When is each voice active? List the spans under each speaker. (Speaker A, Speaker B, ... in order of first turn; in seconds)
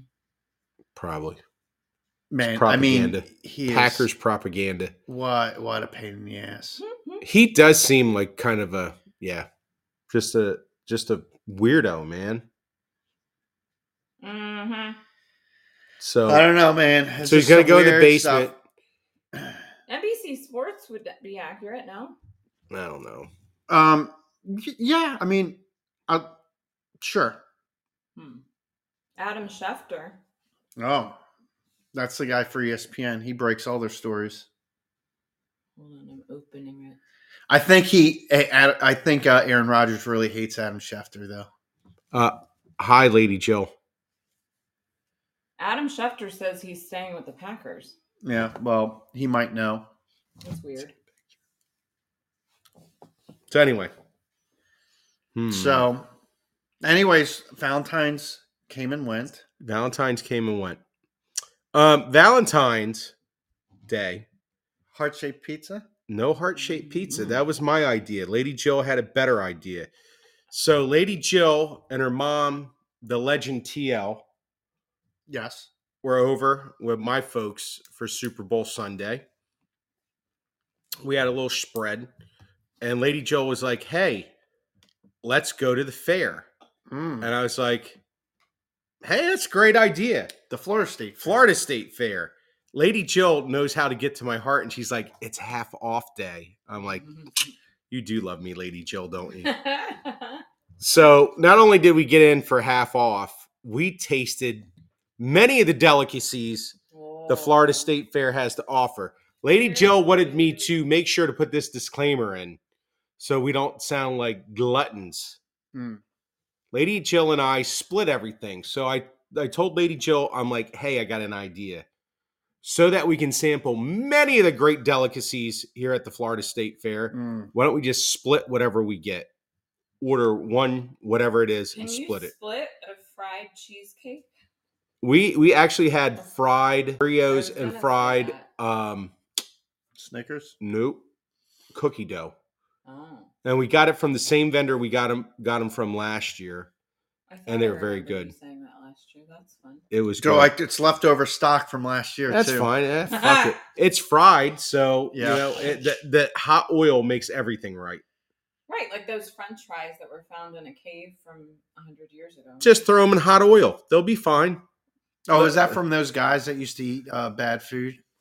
Speaker A: 0.9-1.4, 2.4-4.9, 7.2-9.5, 10.1-12.4, 16.0-16.4, 17.2-18.6, 22.7-23.3, 42.1-43.7, 53.5-53.9, 55.3-55.9, 59.6-60.8, 61.7-63.1, 63.9-64.2, 66.1-69.9, 70.5-74.2, 76.0-79.2, 81.0-82.1, 82.8-84.3, 85.2-86.5, 87.2-88.0, 89.0-90.3, 91.2-97.0, 97.9-99.5, 100.8-104.7, 105.2-112.6, 113.2-115.4, 116.7-121.8, 122.6-129.3, 130.0-132.3, 135.0-139.1, 140.6-141.1, 141.7-142.3, 143.4-146.7, 147.5-148.3, 149.9-150.5, 152.3-158.0, 162.6-164.6, 165.3-165.8
Speaker B: 2.3-4.1, 5.1-6.8, 16.2-18.5, 23.7-26.3, 27.0-27.4, 30.8-31.2, 31.9-34.5, 37.5-41.5, 48.2-49.9, 55.5-56.1, 56.8-59.4, 64.9-65.9, 75.3-75.7, 86.9-87.3, 90.5-91.4, 115.7-116.0, 127.1-127.5, 139.9-140.5, 150.2-152.7, 155.1-155.9, 165.3-168.0
Speaker C: 6.8-7.2, 14.2-15.0, 19.9-22.1, 28.1-28.4, 29.2-30.2, 35.8-37.0, 45.6-48.0, 50.4-50.9, 99.4-100.4, 106.9-107.9, 109.5-110.7, 131.7-134.2, 137.3-138.4, 142.8-143.3, 147.3-149.8, 153.1-153.5, 158.7-162.8